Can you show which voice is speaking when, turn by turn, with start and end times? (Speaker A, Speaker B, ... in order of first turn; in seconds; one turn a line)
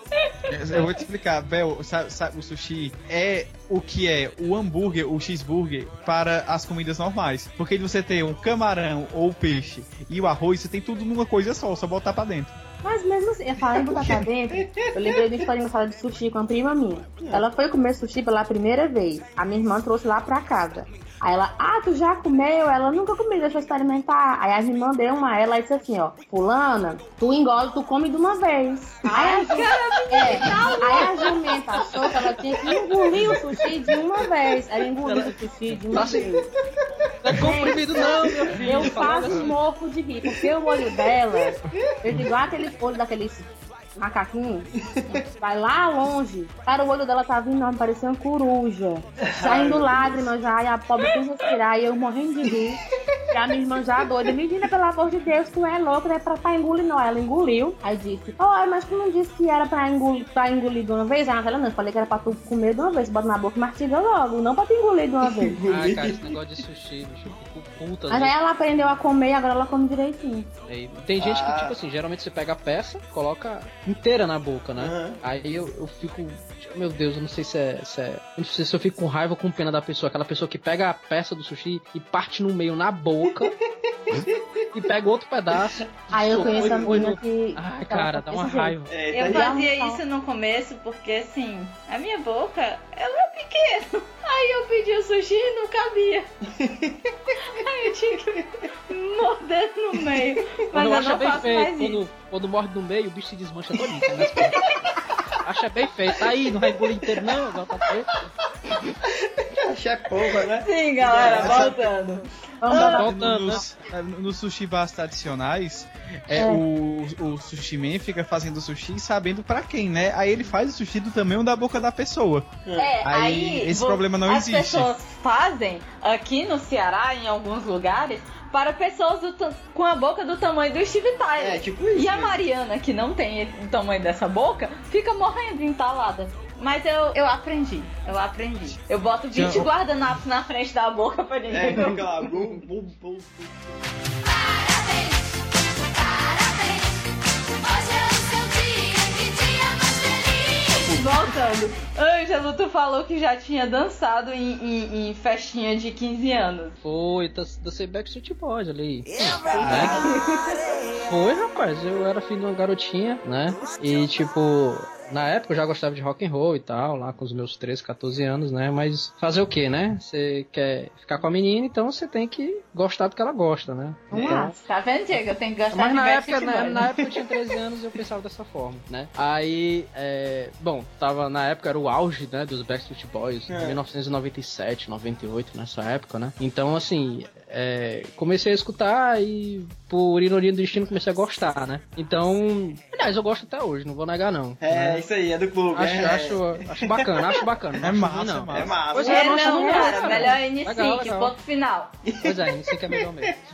Speaker A: 0.5-12.5
Speaker B: 12.8-36.5
Speaker C: 13.6-15.5
Speaker C: 17.2-17.4
Speaker D: 29.1-31.3
Speaker E: 35.0-36.3
Speaker E: 37.2-39.5
Speaker B: 37.3-65.6
Speaker C: 37.9-39.1
Speaker C: 40.3-41.1
Speaker C: 44.9-45.2
Speaker C: 49.2-50.3
Speaker C: 65.2-66.4
Speaker E: 65.7-68.3
Speaker B: 68.1-70.5
Speaker E: 70.7-83.5
Speaker C: 71.2-71.8
Speaker C: 74.8-75.2
Speaker C: 83.3-84.9
Speaker E: 84.7-88.9
Speaker C: 85.5-87.0
Speaker B: 86.1-90.0
Speaker C: 88.9-89.6
Speaker D: 89.1-96.3
Speaker C: 96.5-97.1
Speaker D: 97.4-102.0
Speaker E: 100.7-104.6
Speaker C: 103.8-104.5
Speaker E: 105.4-108.1
Speaker C: 106.2-107.4
Speaker C: 109.0-111.9
Speaker D: 110.6-113.0
Speaker A: 111.2-111.7
Speaker B: 112.6-113.1
Speaker A: 112.7-124.9
Speaker E: 113.0-113.6
Speaker B: 116.3-116.6
Speaker C: 122.6-122.9
Speaker D: 122.8-142.0
Speaker C: 131.4-132.4
Speaker A: 139.3-139.7
Speaker C: 141.5-143.8
Speaker C: 150.7-151.1
Speaker D: 150.7-156.8
Speaker E: 156.8-160.1
Speaker C: 159.4-160.1
Speaker D: 160.1-160.5
Speaker E: 160.9-174.5
Speaker B: 174.1-174.6
Speaker C: 174.1-174.4
Speaker D: 174.3-176.9
Speaker E: 175.7-195.0
Speaker C: 183.5-183.8
Speaker C: 194.6-197.4
Speaker E: 195.7-201.3
Speaker A: 197.8-198.8
Speaker C: 198.5-199.5
Speaker B: 199.0-200.3
Speaker D: 199.1-201.9
Speaker C: 202.0-203.3
Speaker E: 202.2-203.4